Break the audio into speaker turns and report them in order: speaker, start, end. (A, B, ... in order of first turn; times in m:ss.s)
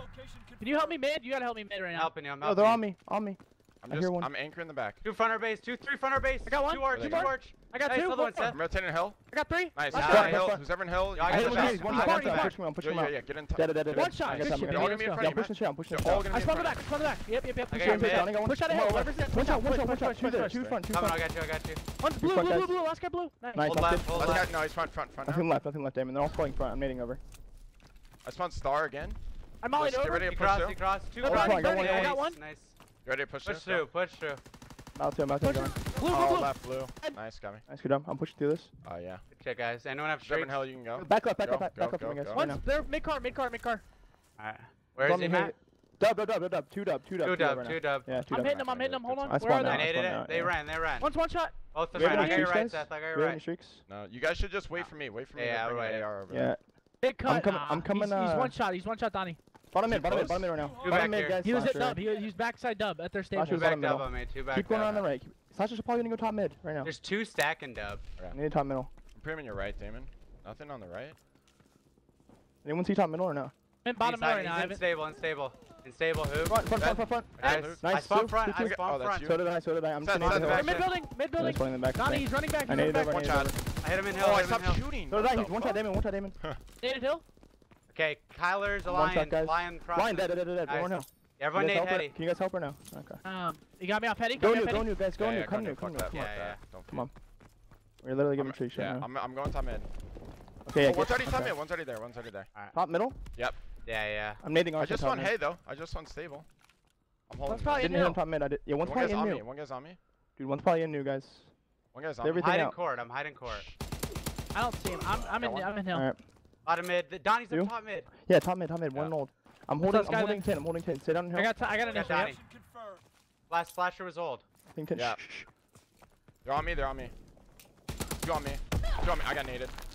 0:00.6-0:02.1 A
0:01.9-0:02.8 B
0:02.4-0:04.3 C
0:03.8-0:05.0 D
0:05.0-0:08.6 B
0:06.5-0:08.6 A
0:06.9-0:07.3 D
0:08.5-0:09.2 D
0:09.3-0:10.4 A
0:09.7-0:11.9 D
0:09.9-0:10.6 B
0:10.0-0:10.7 C
0:11.1-0:12.6 B
0:11.2-0:16.3 C
0:11.7-0:12.6 A
0:12.8-0:16.8 D
0:13.9-0:15.3 A
0:16.3-0:20.8 A
0:17.7-0:18.3 B
0:17.7-0:21.2 C
0:20.5-0:20.8 D
0:20.9-0:21.8 B
0:22.0-0:23.8 A
0:22.2-0:22.8 C
0:23.5-0:24.5 C
0:23.6-0:24.5 B
0:24.2-0:25.5 D
0:25.2-0:27.2 C
0:28.2-0:29.2 D
0:29.6-0:30.3 A
0:29.8-0:30.8 D
0:30.3-0:32.8 B
0:31.2-0:32.4 A
0:31.2-0:32.2 C
0:33.0-0:33.9 D
0:33.4-0:34.4 B
0:35.0-0:35.8 C
0:35.4-0:37.2 A
0:36.1-0:37.6 D
0:37.7-0:38.7 C
0:38.8-0:39.2 D
0:39.3-0:40.7 B
0:40.2-0:42.5 D
0:41.0-0:42.6 C
0:42.3-0:43.8 A
0:44.4-0:45.5 B
0:45.0-0:48.7 C
0:47.2-0:48.1 B
0:48.3-0:50.0 A
0:48.4-0:49.6 D
0:49.3-0:50.6 C
0:49.6-0:51.1 B
0:51.0-0:52.5 A
0:51.7-0:53.4 B
0:52.0-0:53.8 C
0:53.9-0:56.5 D
0:54.8-0:56.1 B
0:56.3-0:56.6 C
0:57.0-0:59.4 A
0:57.2-0:58.5 C
0:59.7-1:02.0 C
0:59.9-1:01.1 D
1:00.8-1:01.4 B
1:01.4-1:03.7 A
1:03.3-1:06.9 C
1:03.5-1:05.1 B
1:06.8-1:08.0 B
1:08.3-1:08.9 C
1:09.1-1:11.2 D
1:12.6-1:13.5 C
1:13.8-1:14.8 A
1:14.0-1:16.6 B
1:16.5-1:23.6 C
1:16.8-1:17.8 D
1:17.4-1:19.4 B
1:18.7-1:19.4 D
1:20.0-1:20.9 D
1:20.2-1:20.9 B
1:20.2-1:23.2 A
1:23.1-1:23.6 D
1:23.8-1:24.9 B
1:24.1-1:25.8 D
1:25.1-1:26.4 C
1:26.8-1:27.2 A
1:27.9-1:32.2 B
1:28.9-1:33.2 C
1:33.2-1:34.9 A
1:34.4-1:36.2 C
1:35.2-1:37.1 D
1:36.1-1:36.6 B
1:38.0-1:39.1 C
1:38.4-1:39.9 D
1:40.7-1:41.5 C
1:40.8-1:42.5 D
1:42.7-1:43.2 C
1:43.8-1:44.4 B
1:44.4-1:45.3 C
1:44.8-1:46.5 D
1:47.3-1:48.1 D
1:47.5-1:48.2 A
1:47.7-1:49.4 C
1:48.8-1:50.0 D
1:50.4-1:51.5 C
1:51.9-1:52.4 D
1:52.2-1:52.8 C
1:52.4-1:53.7 B
1:53.5-1:53.8 D
1:54.5-1:56.1 A
1:55.4-1:55.7 D
1:55.9-1:56.2 C
1:56.6-1:58.1 B
1:57.5-2:01.6 C
1:59.8-2:00.5 A
2:01.3-2:02.3 A
2:01.9-2:02.4 B
2:03.5-2:04.4 B
2:04.7-2:05.5 C
2:05.0-2:05.2 D
2:06.4-2:07.1 D
2:08.2-2:09.7 D